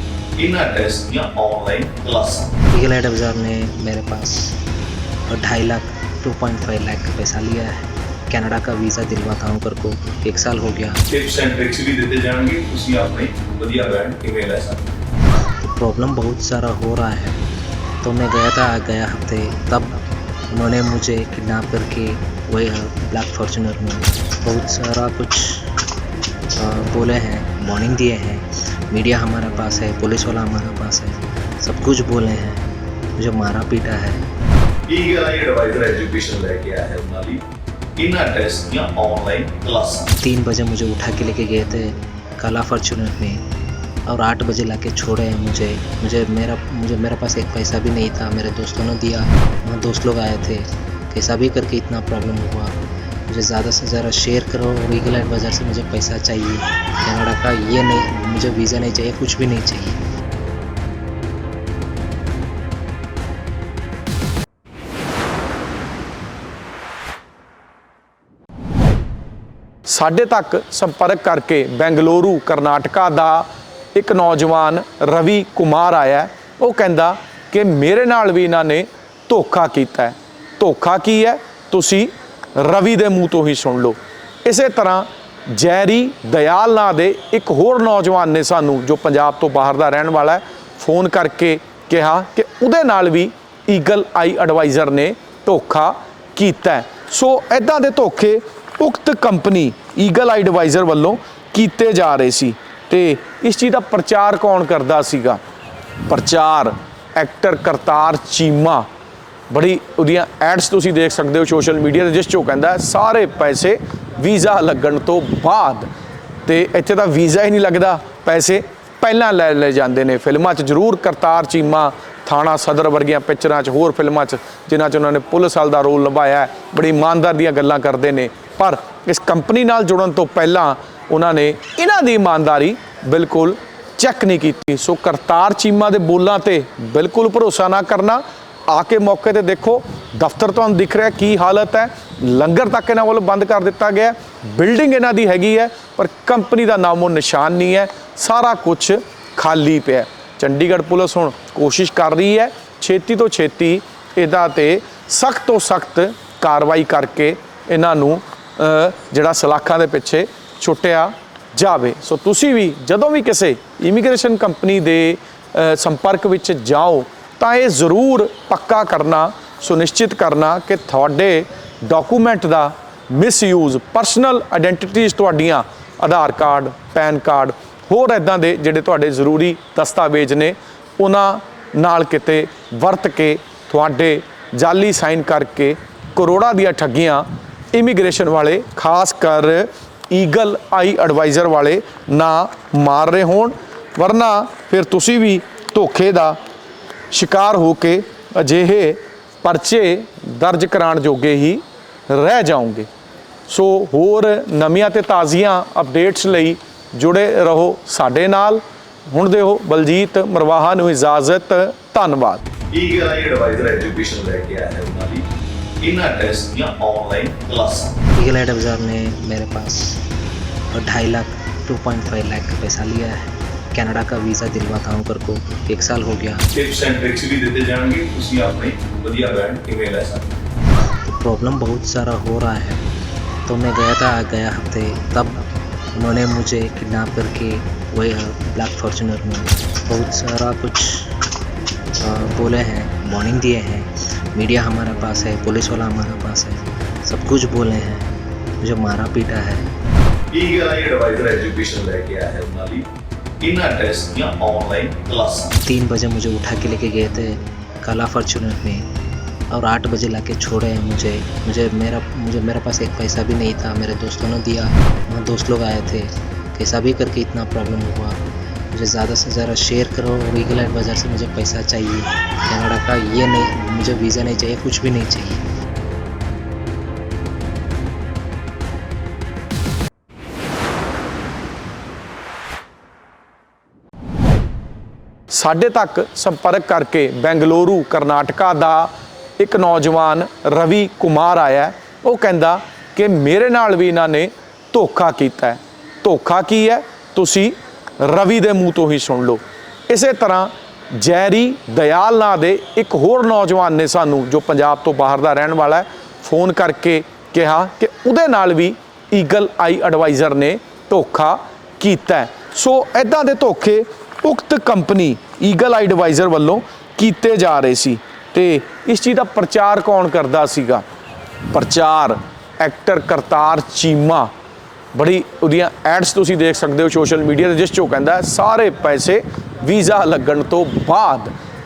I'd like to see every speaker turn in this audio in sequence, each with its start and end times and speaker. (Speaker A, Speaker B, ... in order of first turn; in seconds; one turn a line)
Speaker A: 0.4-2.5
Speaker B: 2.7-4.6
Speaker B: 5.3-11.0
Speaker A: 11.1-14.9
Speaker B: 15.6-17.4
Speaker B: 18.0-25.8
Speaker B: 26.6-34.2
Speaker A: 34.9-37.4
Speaker A: 38.0-40.1
Speaker B: 40.2-43.4
Speaker B: 44.1-60.0
Speaker C: 69.9-105.4
Speaker C: 106.1-108.9
Speaker C: 109.5-115.9
Speaker C: 116.5-196.4
Speaker C: 197.1-202.9
Speaker C: 203.5-212.4
Speaker A: 212.7-215.2
Speaker A: 215.8-218.0
Speaker B: 218.1-220.0
Speaker B: 220.7-226.4
Speaker A: 226.5-230.3
Speaker B: 231.1-232.8
Speaker B: 233.4-241.2
Speaker B: 242.0-248.1
Speaker B: 248.6-249.7
Speaker A: 250.3-252.8
Speaker A: 253.4-255.5
Speaker B: 255.7-258.9
Speaker B: 259.5-275.4
Speaker C: 285.3-320.8
Speaker C: 321.5-324.3
Speaker C: 324.9-331.3